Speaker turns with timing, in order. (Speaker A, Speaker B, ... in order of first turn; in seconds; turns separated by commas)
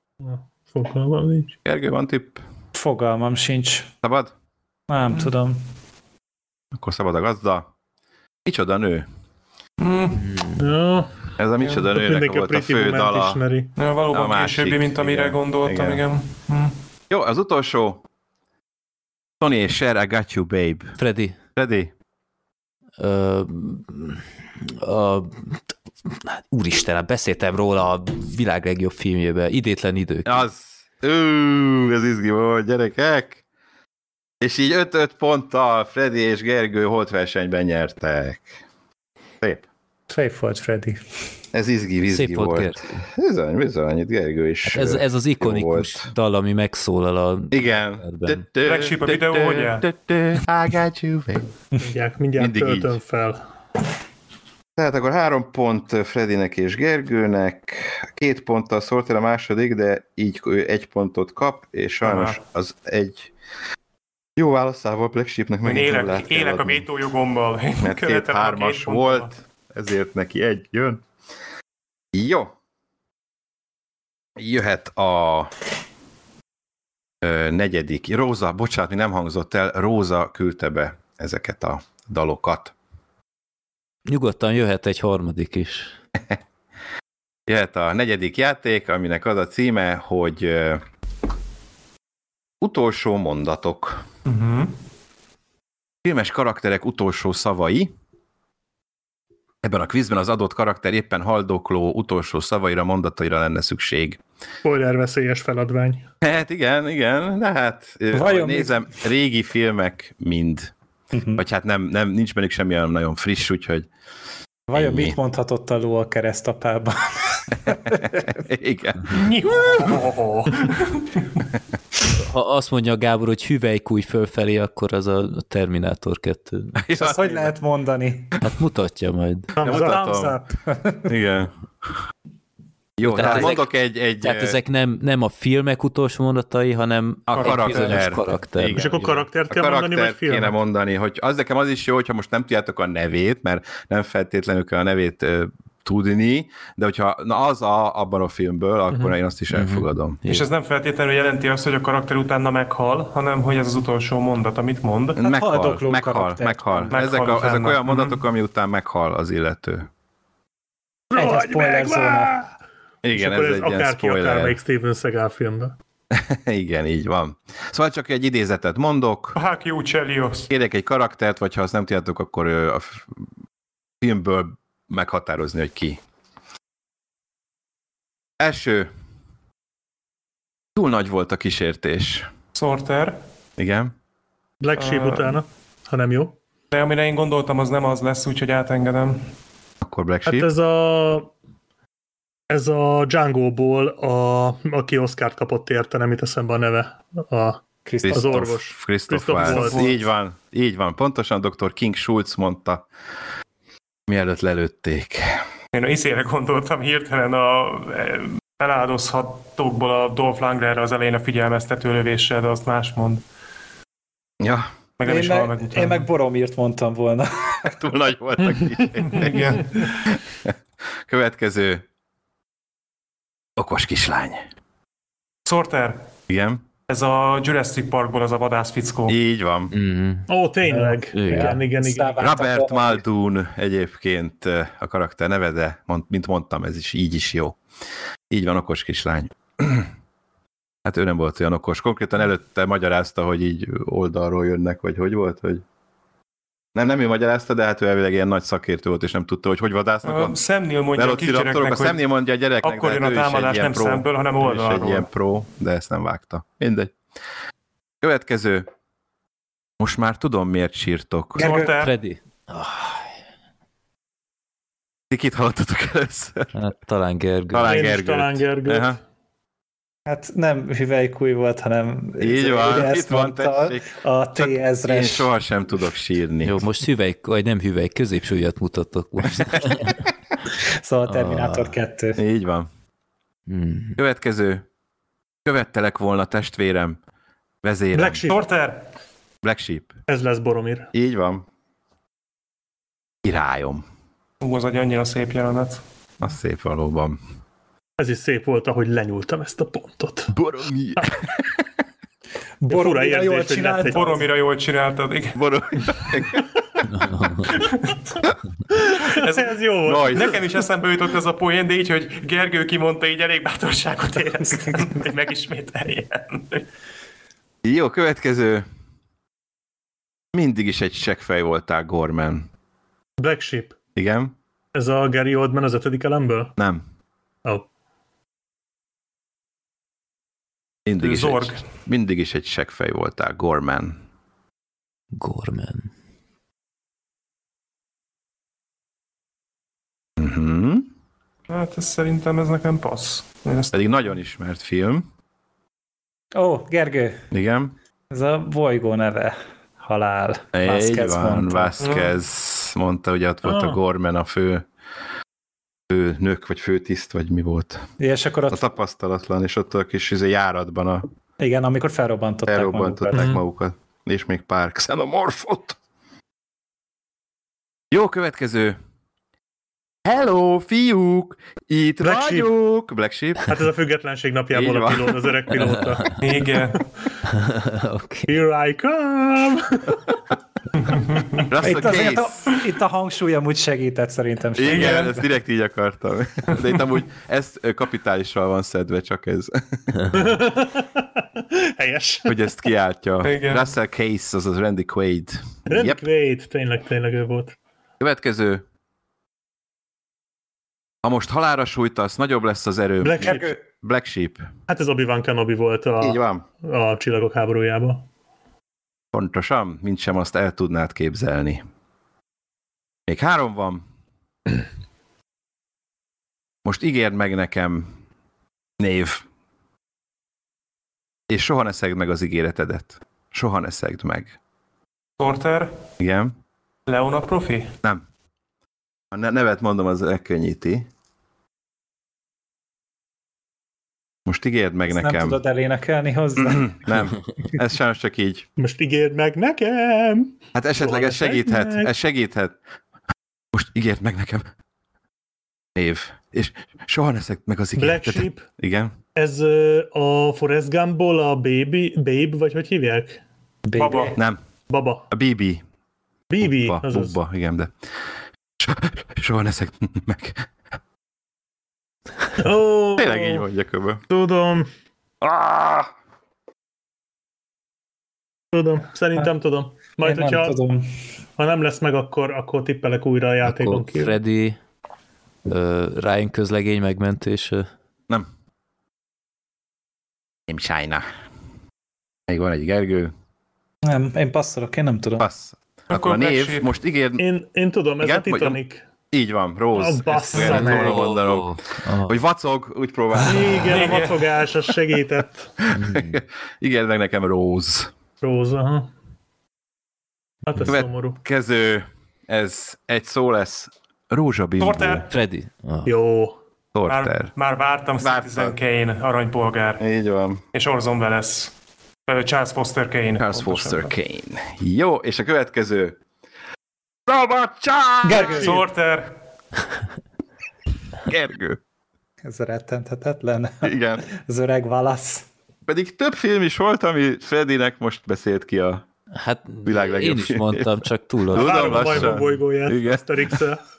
Speaker A: 0.2-1.6, Speaker B: 1.6-2.4, Speaker C: 2.7-3.9, Speaker B: 4.0-4.3, Speaker C: 4.9-5.6, Speaker B: 6.7-7.7, Speaker B: 8.4-9.1, Speaker D: 9.8-10.3, Speaker E: 10.1-10.6, Speaker A: 10.6-11.1, Speaker B: 11.4-13.4, Speaker A: 11.8-13.7, Speaker D: 13.8-16.7, Speaker B: 14.1-16.0, Speaker B: 17.1-18.0, Speaker B: 19.4-21.0, Speaker E: 21.0-21.4, Speaker B: 21.6-21.9, Speaker E: 23.0-30.4, Speaker B: 30.2-33.4, Speaker B: 34.4-38.6, Speaker B: 39.4-39.6, Speaker C: 40.1-41.0, Speaker B: 41.5-46.1, Speaker E: 42.1-43.1, Speaker E: 44.6-48.4, Speaker B: 47.5-51.5, Speaker D: 48.6-49.8, Speaker A: 51.8-53.4, Speaker B: 52.4-53.0, Speaker B: 54.8-63.3, Speaker D: 62.0-62.4, Speaker B: 64.4-66.9, Speaker D: 65.6-69.3, Speaker B: 67.8-71.0, Speaker B: 72.1-72.5, Speaker B: 74.4-75.5, Speaker B: 77.2-82.7, Speaker E: 84.0-85.9, Speaker B: 87.5-90.8, Speaker B: 92.6-94.0, Speaker D: 94.2-94.7, Speaker B: 96.0-97.9, Speaker B: 99.6-104.2, Speaker A: 104.6-106.0, Speaker B: 106.2-110.7, Speaker C: 108.1-108.8, Speaker C: 111.1-111.4, Speaker B: 111.3-113.9, Speaker C: 114.7-118.2, Speaker B: 114.7-115.2, Speaker B: 117.9-119.9, Speaker D: 119.1-120.0, Speaker A: 119.7-120.7, Speaker D: 120.7-121.2, Speaker E: 122.2-126.8, Speaker B: 126.8-127.5, Speaker C: 126.9-128.3, Speaker E: 128.4-129.5, Speaker A: 129.5-130.5, Speaker B: 129.6-130.4, Speaker C: 130.7-131.1, Speaker B: 131.0-132.0, Speaker B: 133.0-134.6, Speaker E: 133.0-133.7, Speaker E: 134.2-139.2, Speaker B: 137.3-150.2, Speaker D: 137.3-138.1, Speaker A: 138.7-140.5, Speaker E: 149.5-150.4, Speaker D: 150.3-155.2, Speaker B: 155.2-159.9, Speaker C: 155.2-156.9, Speaker D: 156.9-158.2, Speaker A: 161.1-162.5, Speaker C: 161.2-162.3, Speaker B: 163.0-164.6, Speaker A: 163.1-165.7, Speaker B: 166.1-169.4, Speaker D: 169.3-170.5, Speaker B: 170.5-173.2, Speaker B: 174.0-176.0, Speaker B: 178.4-178.9, Speaker B: 180.8-182.3, Speaker D: 182.5-183.2, Speaker B: 183.6-183.9, Speaker A: 184.6-186.4, Speaker D: 184.8-185.4, Speaker D: 186.7-189.3, Speaker B: 189.8-190.5, Speaker A: 190.2-191.3, Speaker A: 192.5-199.9, Speaker C: 197.8-198.4, Speaker B: 198.0-202.8, Speaker D: 199.3-200.0, Speaker B: 204.1-205.4, Speaker D: 205.7-213.2, Speaker B: 214.4-214.7, Speaker D: 215.0-216.1, Speaker C: 215.0-217.7, Speaker B: 217.6-220.5, Speaker D: 219.1-220.0, Speaker B: 221.1-221.8, Speaker B: 223.6-224.4, Speaker D: 225.4-226.1, Speaker B: 226.3-226.6, Speaker D: 226.9-229.2, Speaker B: 229.1-229.7, Speaker E: 229.7-230.3, Speaker A: 230.3-232.2, Speaker C: 230.7-233.0, Speaker E: 231.1-231.6, Speaker B: 232.2-237.6, Speaker B: 238.3-239.9, Speaker B: 240.8-245.6, Speaker B: 246.7-250.4, Speaker D: 250.1-252.0, Speaker B: 250.9-256.9, Speaker D: 252.6-255.1, Speaker B: 258.0-258.7, Speaker B: 259.8-261.4, Speaker D: 261.4-261.9, Speaker C: 261.4-261.7, Speaker E: 261.8-263.1, Speaker B: 265.1-266.5, Speaker E: 266.5-267.7, Speaker B: 267.5-269.0, Speaker A: 267.6-269.0, Speaker C: 270.1-275.3, Speaker B: 272.2-276.6, Speaker E: 276.4-280.0, Speaker C: 280.8-282.2, Speaker E: 281.1-281.8, Speaker B: 282.2-282.7, Speaker E: 283.5-284.0, Speaker B: 284.0-284.6, Speaker B: 285.4-287.0, Speaker B: 287.6-288.3, Speaker A: 287.9-288.4, Speaker D: 288.3-288.9, Speaker B: 289.4-289.9, Speaker A: 290.1-290.9, Speaker B: 290.9-291.4, Speaker B: 293.2-293.8, Speaker D: 294.4-295.8, Speaker B: 296.2-297.2, Speaker A: 298.0-300.3, Speaker B: 300.3-301.5, Speaker C: 302.6-304.2, Speaker A: 302.7-304.1, Speaker D: 303.9-305.4, Speaker B: 305.3-306.9, Speaker E: 306.9-307.5, Speaker A: 307.5-308.0, Speaker A: 308.7-310.4, Speaker D: 309.1-316.6, Speaker B: 309.9-310.4, Speaker B: 317.6-318.6, Speaker B: 320.3-322.5, Speaker A: 323.2-323.7, Speaker B: 323.9-324.3, Speaker A: 324.7-326.5, Speaker B: 326.6-326.8, Speaker B: 330.9-334.0, Speaker D: 331.0-331.6, Speaker E: 335.1-335.9, Speaker B: 340.2-340.9, Speaker D: 341.5-343.8, Speaker B: 343.7-345.1, Speaker C: 346.3-347.3, Speaker B: 347.3-347.7, Speaker C: 348.1-351.8, Speaker B: 350.5-354.6, Speaker D: 351.8-352.1, Speaker A: 353.4-353.8, Speaker B: 355.9-357.9, Speaker C: 358.0-358.6, Speaker B: 358.5-361.1, Speaker C: 361.4-363.3, Speaker B: 362.5-365.8, Speaker A: 363.1-363.4, Speaker B: 367.9-368.8, Speaker B: 370.0-373.6, Speaker A: 372.0-372.5, Speaker A: 373.5-376.3, Speaker B: 374.5-375.3, Speaker E: 375.6-376.0, Speaker D: 376.2-376.8, Speaker E: 377.2-378.4, Speaker A: 378.3-380.1, Speaker D: 380.8-381.5, Speaker B: 381.5-382.5, Speaker C: 381.6-385.2, Speaker B: 384.6-390.2, Speaker D: 384.7-385.0, Speaker A: 390.1-392.5, Speaker B: 392.2-396.0, Speaker D: 393.2-393.7, Speaker A: 395.7-397.6, Speaker B: 398.0-398.6, Speaker B: 401.0-404.5, Speaker A: 403.0-403.5, Speaker A: 404.7-408.1, Speaker B: 406.0-406.4, Speaker B: 409.1-411.6, Speaker B: 413.1-413.8, Speaker B: 416.6-417.9, Speaker B: 418.8-419.2, Speaker B: 421.3-424.4, Speaker D: 425.2-425.7, Speaker B: 426.0-426.3, Speaker D: 426.9-427.7, Speaker B: 429.1-430.9, Speaker B: 434.3-435.4, Speaker C: 434.9-437.1, Speaker B: 436.4-438.5, Speaker A: 438.6-441.9, Speaker B: 440.5-442.6, Speaker B: 443.5-444.5, Speaker B: 445.8-448.9, Speaker A: 447.8-448.4, Speaker A: 449.1-453.2, Speaker C: 453.6-454.2, Speaker D: 453.7-454.1, Speaker A: 454.7-455.1, Speaker B: 455.1-455.6, Speaker A: 456.3-457.2, Speaker B: 456.4-457.7, Speaker B: 458.6-460.5, Speaker A: 462.4-463.4, Speaker B: 463.0-464.0, Speaker A: 464.1-464.7, Speaker B: 465.2-465.9, Speaker A: 468.5-470.6, Speaker C: 470.0-470.9, Speaker A: 471.4-474.2, Speaker E: 473.4-474.6, Speaker E: 475.4-477.7, Speaker B: 480.5-481.0, Speaker B: 482.3-483.1, Speaker C: 483.8-485.2, Speaker B: 485.2-487.2, Speaker D: 485.9-486.7, Speaker A: 487.2-488.8, Speaker B: 488.0-488.6, Speaker B: 489.1-493.9, Speaker A: 489.7-491.1, Speaker E: 490.3-492.2, Speaker A: 493.2-495.5, Speaker D: 493.7-494.4, Speaker B: 495.6-497.9, Speaker E: 495.7-496.2, Speaker A: 498.2-498.9, Speaker A: 500.5-501.2, Speaker B: 500.6-505.1, Speaker D: 504.6-505.1, Speaker E: 505.1-505.9, Speaker A: 505.8-506.4, Speaker B: 506.7-507.3, Speaker D: 506.9-509.8, Speaker B: 508.0-508.6, Speaker B: 509.8-510.4, Speaker D: 510.5-511.5, Speaker D: 512.0-513.9, Speaker B: 513.2-516.0, Speaker B: 517.1-518.6, Speaker C: 518.0-518.6, Speaker D: 518.3-519.1, Speaker B: 521.0-521.6, Speaker C: 522.2-525.3, Speaker B: 523.6-524.0, Speaker B: 525.7-528.8, Speaker E: 529.1-532.1, Speaker B: 529.6-530.8, Speaker B: 531.3-533.4, Speaker A: 531.3-533.6